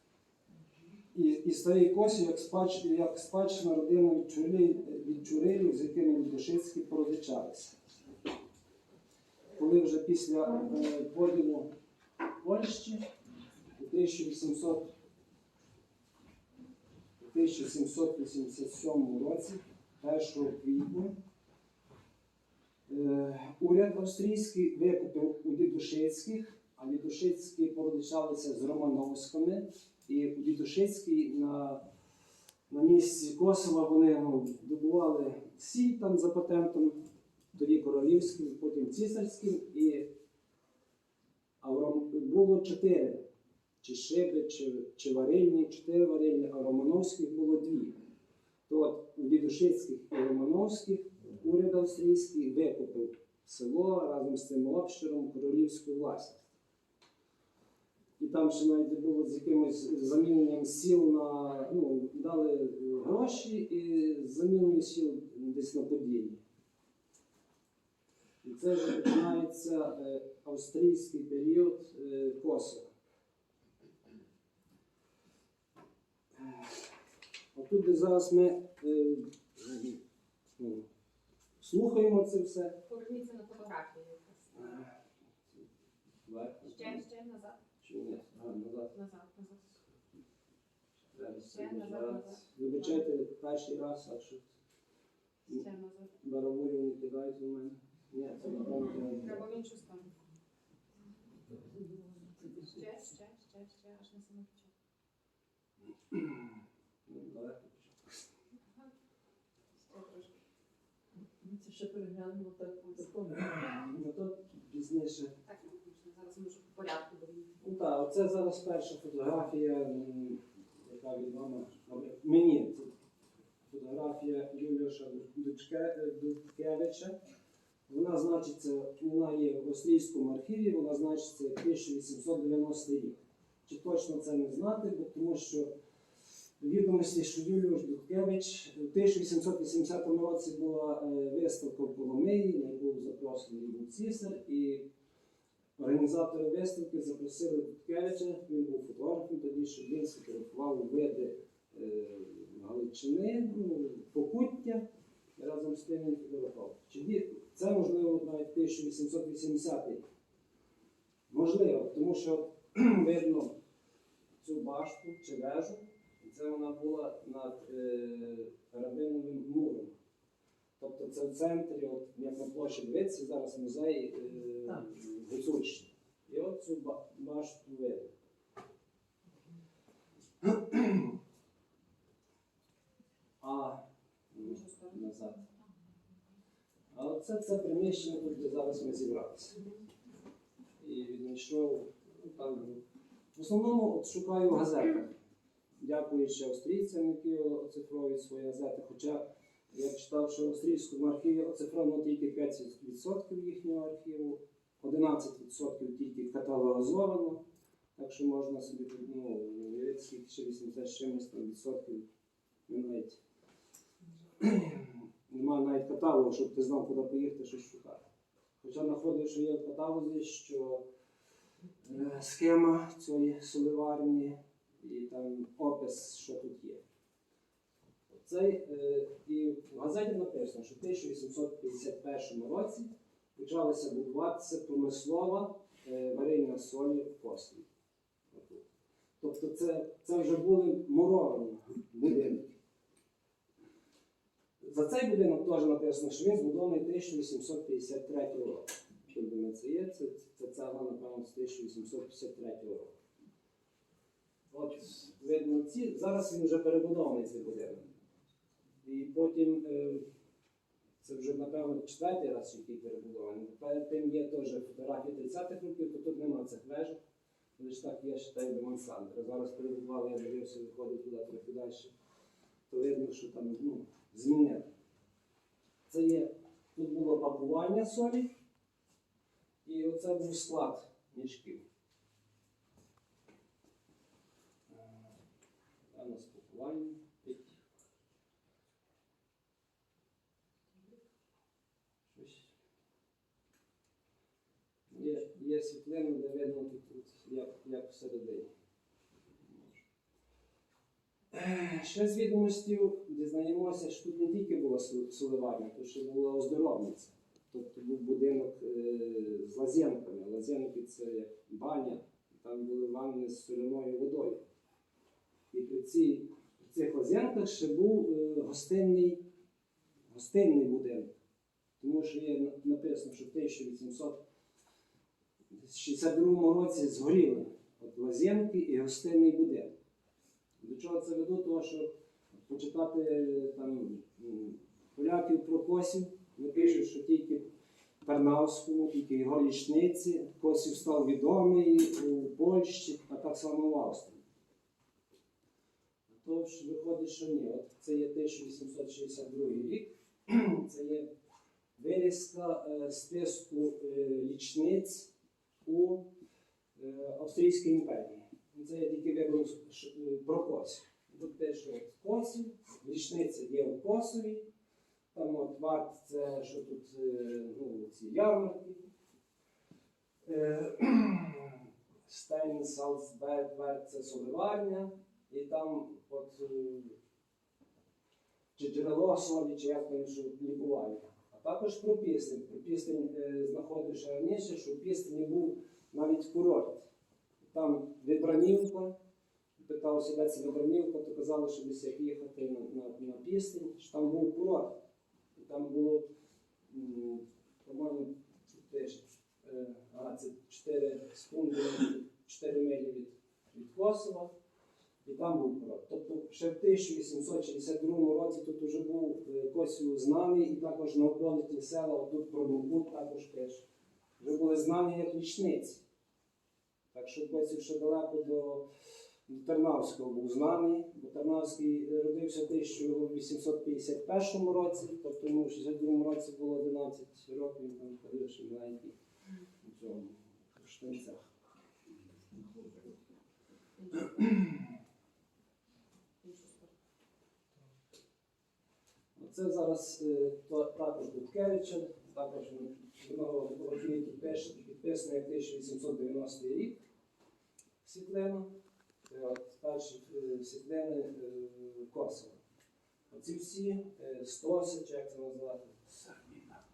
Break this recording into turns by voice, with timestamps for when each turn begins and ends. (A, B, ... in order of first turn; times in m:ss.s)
0:01.1-0:07.8 A
0:09.6-0:11.7 A
0:12.4-0:13.0 A
0:13.8-0:14.9 A
0:17.2-0:21.1 A
0:22.9-0:31.8 A
0:32.7-0:37.0 A
0:37.6-0:40.1 A
0:41.6-0:43.2 A
0:43.8-0:48.0 A
0:48.7-0:56.5 A
0:58.2-1:06.4 A
1:08.4-1:12.9 A
1:16.4-1:16.8 A
1:17.5-1:20.0 A
1:20.6-1:20.9 A
1:21.6-1:22.8 A
1:22.9-1:24.8 B
1:24.6-1:24.9 A
1:26.3-1:27.0 A
1:26.7-1:27.6 B
1:27.8-1:28.9 A
1:28.9-1:29.8 B
1:31.1-1:34.5 A
1:31.5-1:32.9 B
1:35.5-1:36.1 B
1:36.2-1:39.4 A
1:39.1-1:40.1 B
1:42.6-1:44.7 B
1:46.1-1:46.5 A
1:47.1-1:47.9 A
1:49.8-1:50.4 B
1:51.4-1:53.4 C
1:53.3-1:55.4 A
1:55.4-1:57.6 B
1:57.6-2:02.9 A
2:03.7-2:07.2 A
2:07.9-2:15.7 A
2:16.6-2:24.9 A
2:25.8-2:34.8 A
2:35.4-2:40.0 A
2:41.3-2:43.6 A
2:44.4-2:49.9 A
2:50.8-2:58.1 A
3:00.4-3:01.1 A
3:03.4-3:03.8 A
3:04.3-3:05.4 A
3:04.4-3:04.9 B
3:06.9-3:09.6 A
3:10.8-3:12.8 A
3:13.4-3:15.1 A
3:15.8-3:27.4 A
3:28.0-3:32.1 A
3:32.7-3:33.2 A
3:34.4-3:38.0 A
3:38.6-3:40.8 A
3:41.8-3:46.8 A
3:48.1-3:57.7 A
3:58.3-3:58.6 A
3:59.2-4:02.6 A
4:04.6-4:12.9 A
4:14.5-4:17.9 A
4:18.8-4:20.0 A
4:21.0-4:27.0 A
4:27.6-4:31.9 A
4:32.7-4:34.7 A
4:35.9-4:38.3 A
4:39.6-4:41.6 A
4:44.7-4:45.0 A
4:45.9-4:47.5 A
4:52.1-4:52.5 A
4:54.9-4:58.5 A
5:01.3-5:14.4 A
5:15.5-5:19.2 A
5:20.1-5:21.1 A
5:21.8-5:24.2 A
5:25.5-5:29.7 A
5:30.6-5:31.9 A
5:32.4-5:37.5 A
5:38.0-5:44.2 A
5:46.1-5:51.1 A
5:51.8-5:55.1 A
5:55.6-5:56.0 A
5:56.8-6:04.4 A
6:05.1-6:08.8 A
6:10.3-6:17.0 A
6:18.6-6:26.9 A
6:27.4-6:29.0 A
6:29.6-6:34.7 A
6:35.4-6:36.1 A
6:36.7-6:44.3 A
6:45.0-6:53.6 A
6:54.2-6:55.8 A
6:56.9-6:58.6 A
6:59.3-7:09.0 A
7:09.6-7:11.3 A
7:13.8-7:14.4 B
7:16.2-7:16.7 B
7:19.2-7:26.8 A
7:27.8-7:28.5 A
7:29.1-7:32.4 A
7:33.1-7:36.4 A